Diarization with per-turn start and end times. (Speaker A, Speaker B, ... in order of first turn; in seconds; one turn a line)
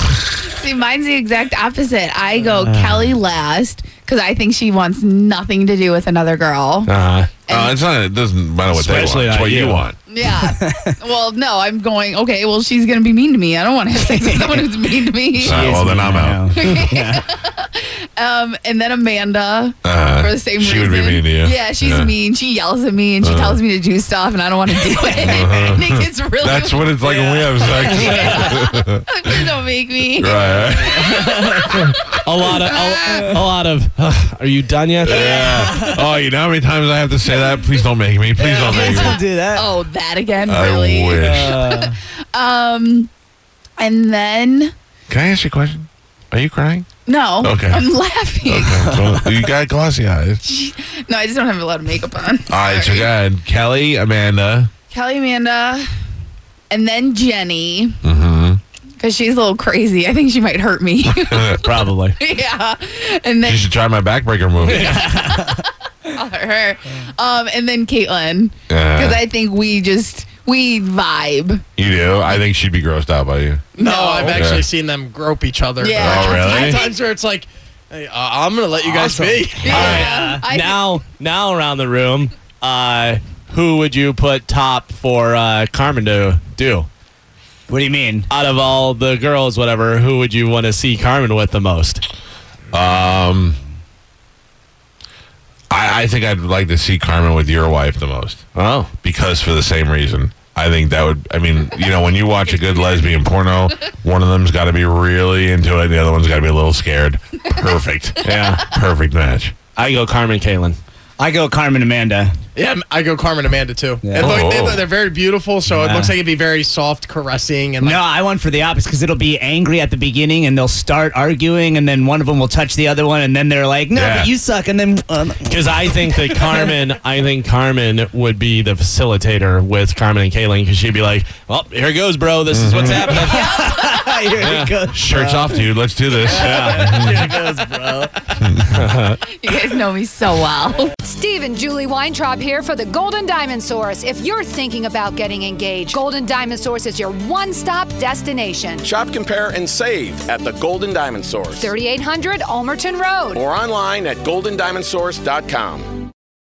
Speaker A: 0.4-6.9
Speaker B: 2.5-3.1
Speaker C: 6.9-7.3
Speaker A: 7.5-7.8
Speaker D: 7.5-10.0
Speaker C: 8.7-9.9
Speaker A: 10.1-15.7
Speaker B: 10.4-10.9
Speaker B: 13.9-14.8
Speaker B: 15.3-17.3
Speaker D: 15.4-16.5
Speaker A: 16.5-33.3
Speaker D: 19.8-22.1
Speaker D: 23.2-23.6
Speaker D: 25.2-29.6
Speaker C: 28.1-28.5
Speaker D: 30.1-31.4
Speaker B: 31.0-31.8
Speaker C: 31.7-35.5
Speaker D: 32.7-33.1
Speaker D: 35.0-39.2
Speaker A: 35.1-35.9
Speaker B: 35.5-36.0
Speaker B: 38.4-39.8
Speaker A: 38.6-43.1
Speaker D: 40.4-41.6
Speaker B: 41.2-42.0
Speaker A: 43.8-44.7
Speaker D: 45.1-46.9
Speaker A: 47.0-48.8
Speaker D: 47.4-47.9
Speaker D: 48.4-50.4
Speaker B: 48.8-49.3
Speaker A: 50.4-53.1
Speaker D: 52.5-54.7
Speaker A: 54.9-55.9
Speaker A: 56.7-58.0
Speaker D: 58.0-58.6
Speaker A: 59.0-63.7
Speaker D: 61.1-61.6
Speaker C: 61.6-62.2
Speaker D: 63.4-65.1
Speaker B: 64.7-65.6
Speaker A: 64.7-71.6
Speaker D: 68.7-69.2
Speaker D: 71.8-73.7
Speaker E: 73.8-80.0
Speaker A: 73.8-74.4
Speaker D: 74.3-74.7
Speaker A: 75.8-77.0
Speaker D: 75.9-76.9
Speaker B: 78.8-80.4
Speaker A: 79.6-81.0
Speaker C: 79.7-86.9
Speaker B: 87.7-88.3
Speaker C: 88.3-92.0
Speaker D: 92.7-93.6
Speaker D: 95.7-98.4
Speaker C: 98.5-98.9
Speaker D: 99.0-109.5
Speaker C: 108.2-108.7
Speaker C: 109.8-110.8
Speaker B: 111.2-112.3
Speaker E: 112.5-118.0
Speaker B: 114.0-114.5
Speaker D: 114.2-114.9
Speaker B: 115.7-116.2
Speaker B: 117.8-125.9
Speaker D: 123.9-124.3
Speaker C: 125.5-133.6
Speaker D: 132.5-133.2
Speaker B: 133.1-135.6
Speaker A: 133.2-134.2
Speaker C: 134.4-134.7
Speaker D: 134.9-137.2
Speaker B: 136.2-138.2
Speaker C: 136.3-136.9
Speaker D: 138.4-138.9
Speaker C: 138.8-139.2
Speaker A: 139.4-140.9
Speaker F: 141.0-148.8
Speaker G: 148.8-151.7
Speaker F: 151.6-153.4
Speaker G: 153.3-156.1